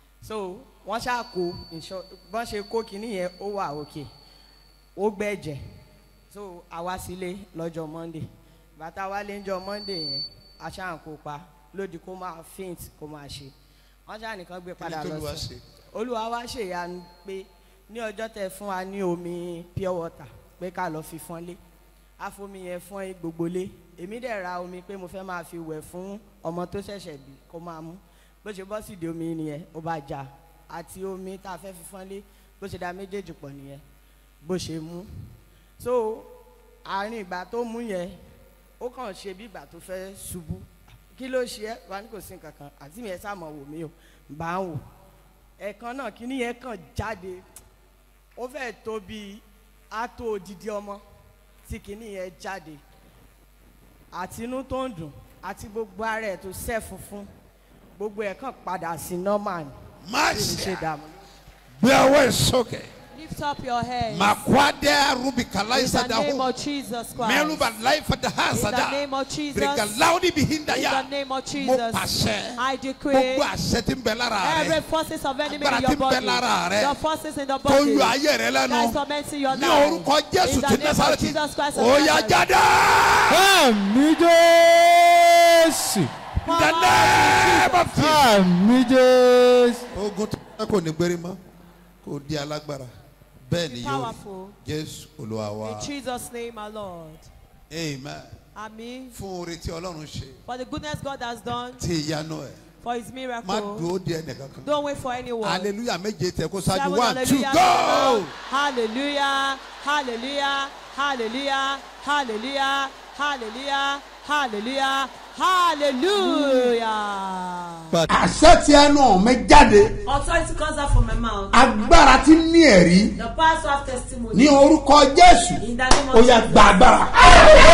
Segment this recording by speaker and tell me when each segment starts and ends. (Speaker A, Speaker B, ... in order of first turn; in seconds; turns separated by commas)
Speaker A: 0.2-4.1, Speaker A: 5.0-5.6, Speaker A: 6.3-13.5, Speaker A: 14.1-21.6, Speaker B: 14.8-15.6, Speaker A: 22.2-33.8, Speaker A: 34.4-35.1, Speaker A: 35.8-36.3, Speaker A: 36.9-38.2, Speaker A: 38.8-44.8, Speaker A: 45.6-47.4, Speaker A: 48.4-51.0, Speaker A: 51.7-52.8, Speaker A: 54.1-57.3, Speaker A: 58.0-59.7, Speaker B: 60.0-60.9, Speaker A: 60.3-61.1, Speaker B: 61.8-62.9, Speaker C: 63.1-64.5, Speaker B: 64.1-66.5, Speaker C: 65.7-67.7, Speaker B: 67.1-74.9, Speaker C: 68.5-70.0, Speaker C: 70.7-73.5, Speaker C: 74.4-78.2, Speaker B: 75.5-77.0, Speaker B: 77.6-85.1, Speaker C: 78.7-82.5, Speaker B: 85.7-91.4, Speaker C: 86.4-88.0, Speaker B: 92.0-92.9, Speaker B: 93.5-95.9, Speaker C: 93.7-94.6, Speaker C: 95.6-97.2, Speaker B: 97.7-98.3, Speaker C: 98.6-99.2, Speaker B: 99.1-100.4, Speaker C: 100.5-101.8, Speaker B: 101.8-102.6, Speaker C: 102.8-103.9, Speaker D: 103.5-104.5, Speaker C: 104.6-105.7, Speaker B: 105.4-108.3, Speaker C: 106.7-118.0, Speaker D: 118.1-120.0, Speaker E: 120.1-121.6, Speaker D: 121.5-123.2, Speaker E: 123.2-124.7, Speaker D: 124.3-127.6, Speaker E: 125.6-127.0